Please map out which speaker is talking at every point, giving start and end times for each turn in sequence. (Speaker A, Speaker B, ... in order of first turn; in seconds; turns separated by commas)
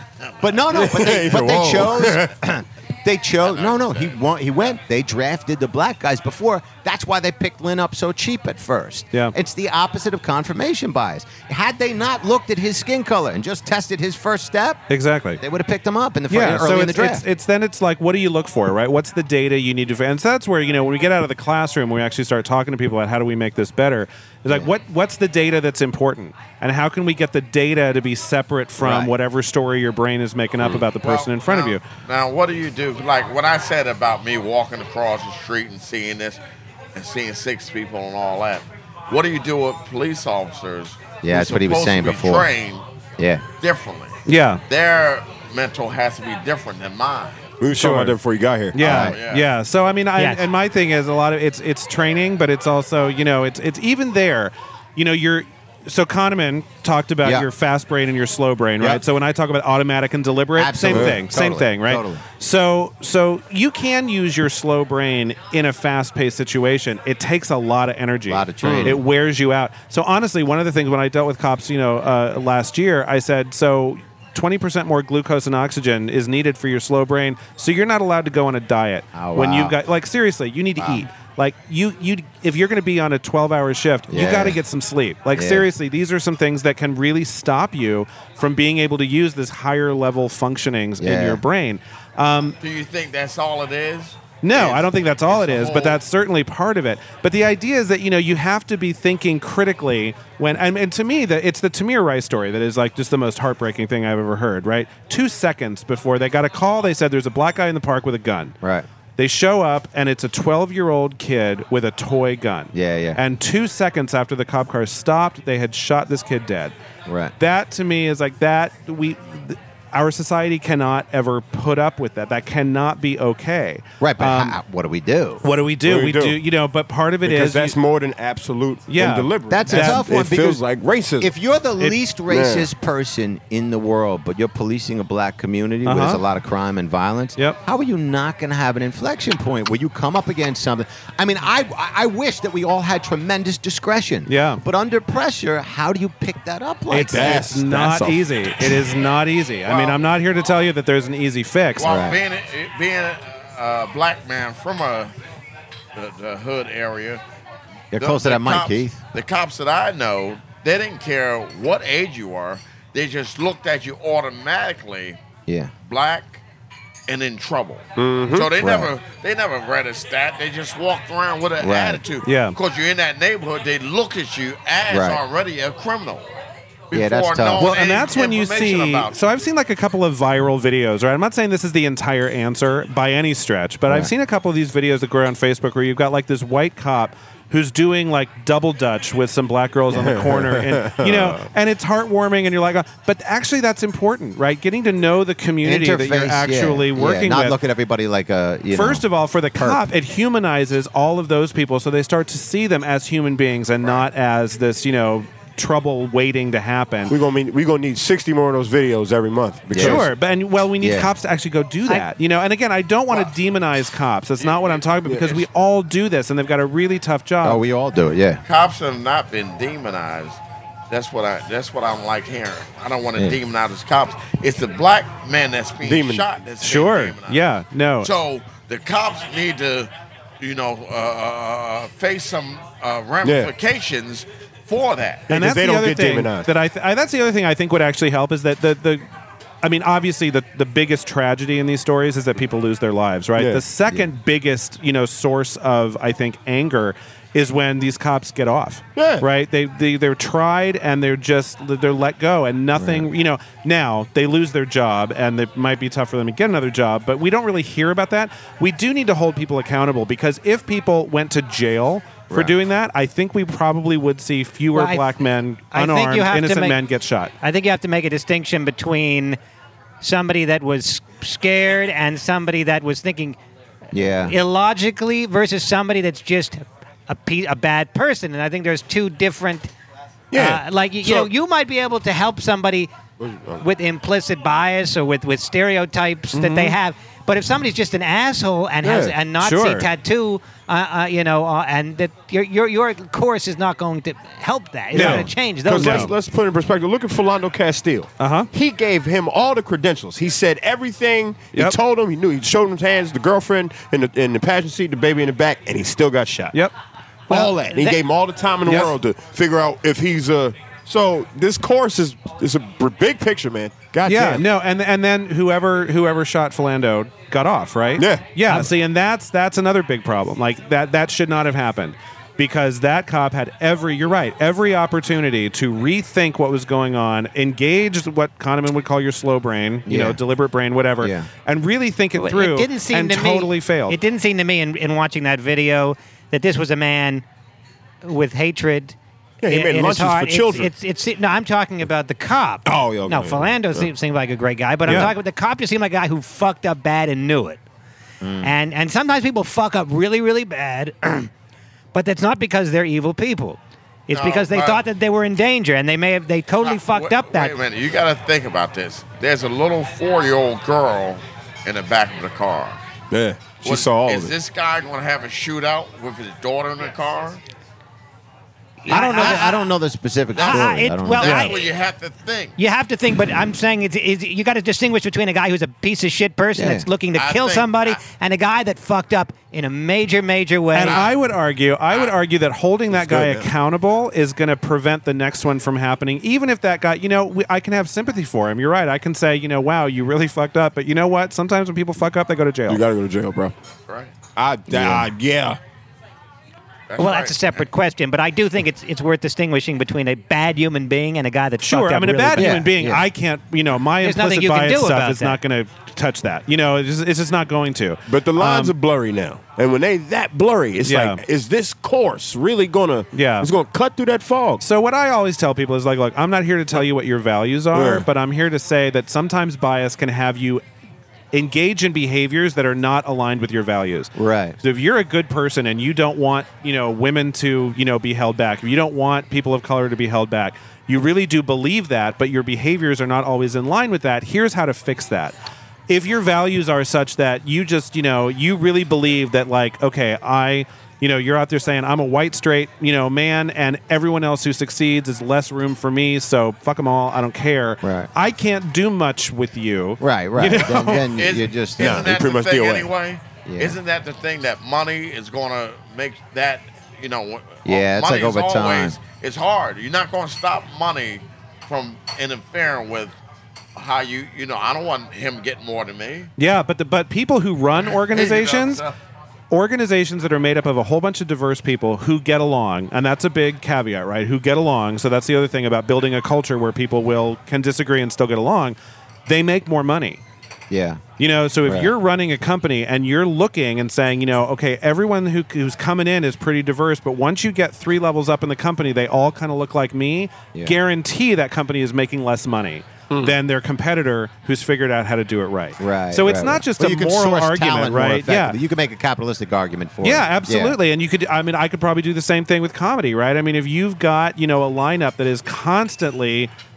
Speaker A: 0.4-14.8, Speaker B: 0.7-2.3, Speaker C: 3.4-4.2, Speaker D: 14.9-15.4, Speaker A: 15.4-17.2, Speaker D: 16.3-31.8, Speaker A: 28.8-29.1, Speaker C: 31.0-36.4, Speaker C: 37.0-42.9, Speaker A: 41.2-42.5, Speaker A: 43.2-43.5, Speaker C: 43.6-47.5, Speaker D: 44.3-44.6, Speaker B: 47.6-49.0, Speaker D: 47.8-48.2, Speaker D: 48.7-92.6, Speaker A: 48.8-49.2, Speaker C: 49.0-49.5, Speaker A: 57.2-57.5, Speaker A: 60.6-62.2, Speaker B: 60.9-61.2, Speaker A: 68.3-69.0, Speaker B: 68.6-69.0, Speaker A: 79.1-79.8, Speaker A: 80.8-81.1, Speaker A: 84.1-84.6, Speaker A: 85.3-85.7, Speaker A: 91.0-91.4, Speaker C: 92.6-96.0, Speaker D: 94.4-108.5, Speaker A: 108.6-108.9, Speaker D: 109.2-116.7, Speaker A: 112.7-113.2, Speaker A: 117.1-117.3, Speaker D: 117.4-124.6, Speaker A: 124.0-125.4, Speaker D: 125.4-127.8, Speaker B: 125.9-126.4, Speaker B: 127.2-131.3, Speaker D: 128.9-130.1, Speaker A: 129.5-130.6, Speaker A: 131.2-147.6, Speaker B: 132.3-132.7, Speaker D: 135.8-136.2, Speaker D: 144.3-144.6, Speaker D: 146.9-151.9, Speaker B: 146.9-148.8, Speaker C: 149.7-150.0, Speaker C: 151.8-155.2, Speaker A: 151.8-152.2, Speaker C: 155.9-157.2, Speaker A: 157.9-159.0, Speaker C: 157.9-165.2, Speaker A: 165.5-165.7, Speaker C: 165.8-166.4, Speaker C: 167.1-176.3, Speaker B: 168.0-168.6, Speaker A: 168.6-168.9, Speaker A: 171.6-172.0, Speaker D: 172.2-172.6, Speaker A: 174.9-175.2, Speaker C: 176.9-179.2, Speaker A: 176.9-177.7, Speaker D: 177.6-197.6, Speaker B: 189.9-191.4, Speaker A: 195.6-199.0, Speaker D: 198.7-207.2, Speaker A: 199.6-199.8, Speaker B: 207.1-210.1, Speaker A: 209.7-210.1, Speaker D: 209.8-217.6, Speaker A: 210.8-211.1, Speaker C: 214.4-214.8, Speaker B: 215.1-215.4, Speaker A: 217.4-218.4, Speaker C: 218.5-227.4, Speaker B: 225.8-226.3, Speaker D: 226.6-228.1, Speaker C: 228.0-235.3, Speaker B: 233.2-233.5, Speaker B: 235.3-236.5, Speaker D: 235.3-239.0, Speaker D: 239.6-267.3, Speaker B: 243.4-243.6, Speaker B: 249.0-249.3, Speaker A: 252.8-253.1, Speaker A: 262.3-262.6, Speaker E: 264.7-265.1, Speaker E: 265.7-266.8, Speaker E: 267.4-269.4, Speaker E: 270.0-273.4, Speaker A: 273.9-274.4, Speaker E: 274.0-279.7, Speaker B: 280.3-281.3, Speaker E: 280.4-282.9, Speaker B: 283.2-283.6, Speaker E: 283.6-296.1, Speaker D: 286.3-286.8, Speaker B: 288.8-289.2, Speaker D: 289.4-289.9, Speaker D: 294.9-296.1, Speaker B: 294.9-306.5, Speaker D: 298.2-298.5, Speaker B: 307.3-314.4, Speaker E: 307.3-308.0, Speaker D: 308.6-308.9, Speaker D: 314.1-334.0, Speaker B: 318.0-318.6, Speaker A: 329.9-330.2, Speaker A: 331.0-331.3, Speaker E: 332.1-337.2, Speaker E: 338.0-339.0, Speaker B: 339.4-340.7, Speaker E: 339.5-347.6, Speaker B: 342.6-343.9, Speaker A: 348.2-348.5, Speaker E: 348.4-351.3, Speaker E: 351.9-357.6, Speaker C: 354.1-354.8, Speaker C: 356.6-362.8, Speaker B: 363.1-364.3, Speaker C: 363.6-367.4, Speaker E: 368.8-369.6, Speaker C: 368.9-369.6, Speaker A: 368.9-371.5, Speaker C: 370.3-372.6, Speaker E: 370.4-371.7, Speaker E: 372.6-381.0, Speaker A: 376.6-376.9, Speaker C: 377.1-378.0, Speaker D: 380.7-392.8, Speaker C: 380.8-381.1, Speaker B: 382.9-383.5, Speaker B: 392.7-393.6, Speaker C: 393.9-394.1, Speaker B: 394.4-395.6, Speaker A: 394.7-395.1, Speaker C: 396.9-397.7, Speaker E: 397.0-402.6, Speaker D: 401.6-408.7, Speaker A: 402.4-403.1, Speaker E: 404.0-405.4, Speaker B: 408.1-414.6, Speaker D: 410.9-411.2, Speaker D: 413.1-413.5, Speaker D: 414.6-420.6, Speaker B: 417.7-418.1, Speaker D: 421.3-435.4, Speaker A: 424.2-424.6, Speaker D: 435.9-451.1, Speaker A: 447.8-448.1, Speaker A: 450.0-452.1, Speaker C: 450.5-463.2, Speaker B: 451.8-452.9, Speaker A: 453.4-453.8, Speaker A: 457.6-459.0, Speaker C: 463.8-466.3, Speaker D: 466.4-468.9, Speaker C: 467.9-468.9, Speaker D: 469.5-480.2, Speaker A: 480.7-481.0, Speaker D: 481.2-498.6, Speaker A: 481.6-481.9, Speaker A: 495.8-500.8, Speaker D: 500.0-506.5